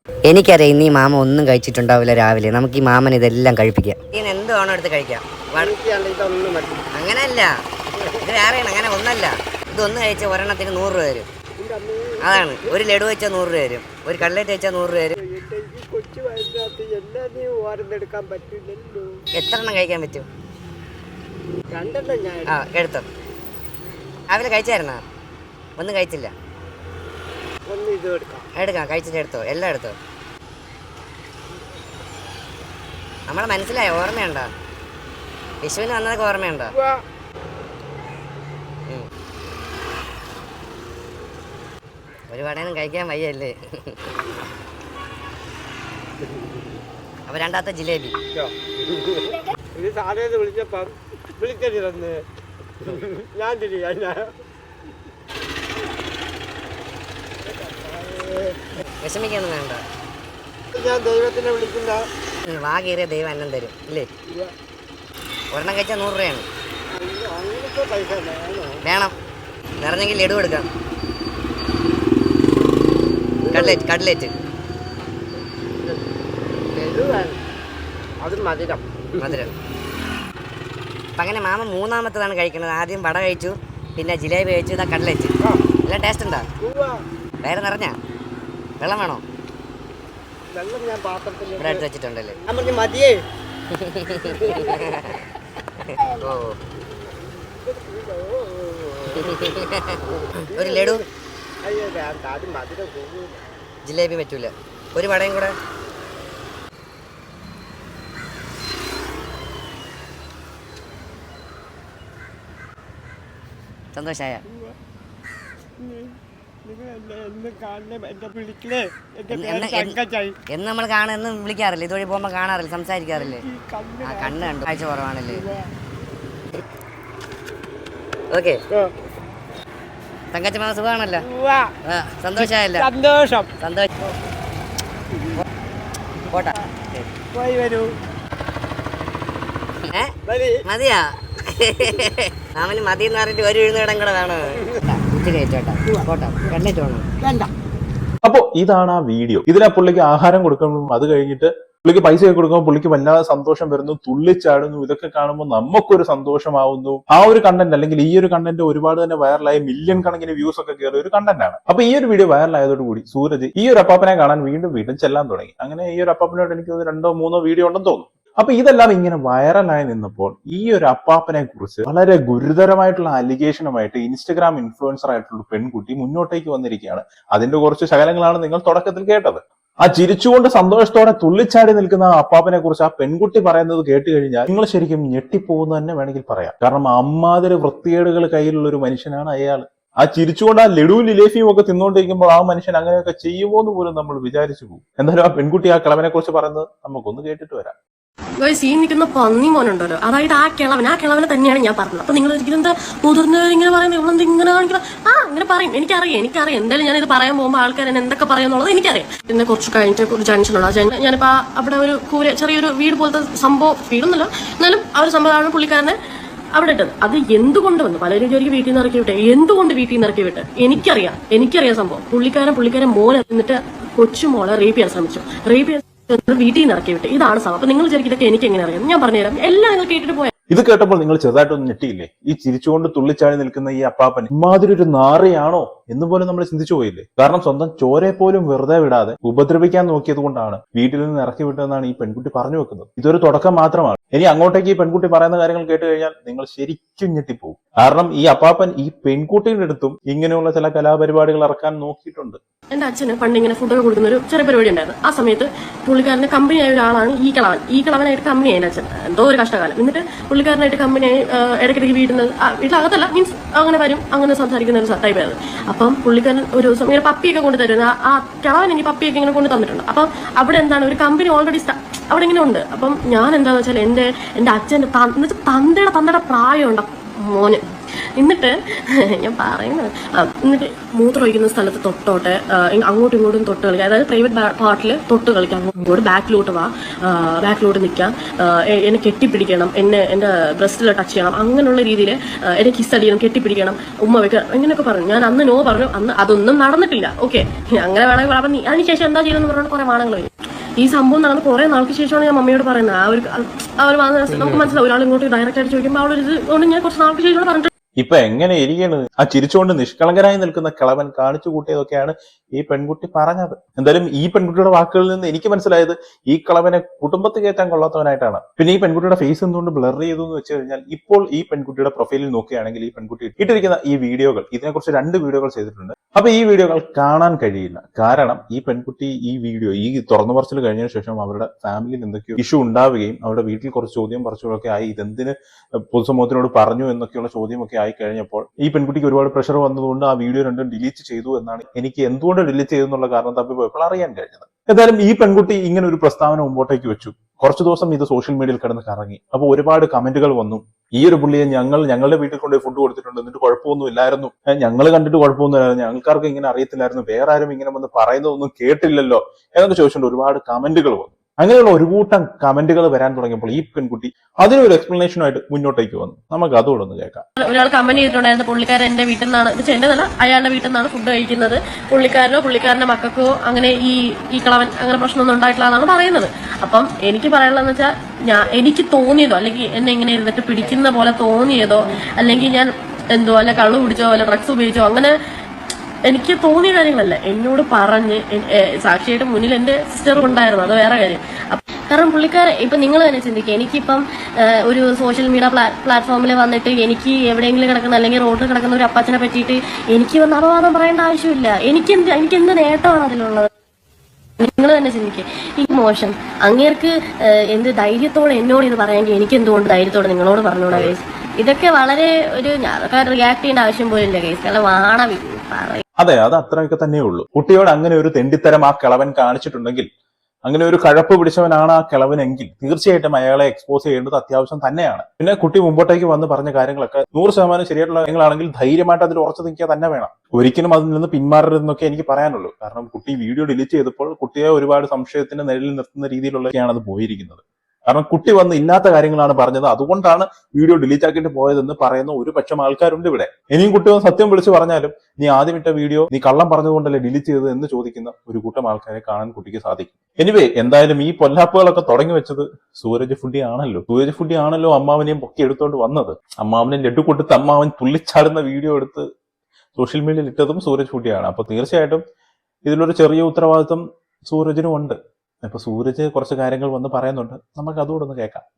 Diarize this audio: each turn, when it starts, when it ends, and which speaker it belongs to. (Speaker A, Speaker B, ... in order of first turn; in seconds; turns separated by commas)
Speaker A: 0.3-5.7, Speaker B: 5.5-6.9, Speaker A: 6.9-7.5, Speaker B: 8.0-8.3, Speaker A: 8.2-11.3, Speaker B: 11.6-12.8, Speaker A: 12.2-15.1, Speaker B: 15.2-19.2, Speaker A: 19.4-20.3, Speaker B: 21.7-22.7, Speaker A: 22.5-23.1, Speaker A: 24.3-25.0, Speaker A: 25.8-26.3, Speaker B: 27.7-28.5, Speaker A: 28.6-30.0, Speaker A: 33.3-34.5, Speaker A: 35.6-36.7, Speaker B: 36.8-37.0, Speaker A: 42.3-44.0, Speaker B: 46.2-46.7, Speaker A: 47.3-48.2, Speaker B: 48.3-52.2, Speaker B: 52.8-54.3, Speaker B: 57.4-58.9, Speaker A: 59.0-59.8, Speaker B: 60.7-62.0, Speaker A: 62.5-64.1, Speaker A: 65.5-66.5, Speaker B: 66.9-68.8, Speaker A: 68.8-69.1, Speaker A: 69.8-70.7, Speaker B: 73.4-74.0, Speaker A: 73.5-74.3, Speaker B: 76.7-77.4, Speaker B: 78.2-79.5, Speaker A: 79.2-79.5, Speaker A: 81.2-85.3, Speaker A: 85.8-86.5, Speaker B: 86.6-87.0, Speaker A: 87.4-88.0, Speaker A: 88.8-89.2, Speaker B: 90.5-91.9, Speaker A: 91.6-92.4, Speaker B: 92.4-93.2, Speaker A: 93.7-95.0, Speaker B: 94.1-94.9, Speaker B: 96.0-96.3, Speaker A: 96.2-96.5, Speaker B: 96.9-101.0, Speaker A: 99.2-99.8, Speaker A: 100.5-101.0, Speaker B: 101.6-103.4, Speaker A: 103.8-105.5, Speaker A: 113.9-114.4, Speaker B: 114.5-114.8, Speaker B: 115.8-120.4, Speaker A: 119.3-120.0, Speaker A: 120.5-123.4, Speaker B: 123.1-124.7, Speaker A: 124.0-125.4, Speaker B: 125.3-125.7, Speaker A: 128.3-128.6, Speaker A: 130.3-131.2, Speaker B: 131.2-131.8, Speaker A: 131.9-132.9, Speaker B: 132.3-133.5, Speaker A: 133.6-133.9, Speaker B: 137.2-137.9, Speaker B: 140.3-140.6, Speaker A: 140.7-147.1, Speaker B: 141.8-142.1, Speaker B: 144.5-144.8, Speaker B: 145.9-146.6, Speaker B: 147.2-147.5, Speaker C: 148.2-197.8, Speaker D: 198.4-216.0, Speaker D: 216.6-230.3, Speaker C: 230.5-252.4, Speaker D: 252.7-277.6, Speaker D: 278.2-307.7, Speaker C: 308.0-367.2, Speaker D: 367.4-385.1, Speaker D: 386.1-403.5, Speaker D: 404.4-415.8, Speaker C: 416.0-419.9, Speaker C: 420.5-459.1, Speaker C: 459.8-462.0, Speaker C: 462.7-468.4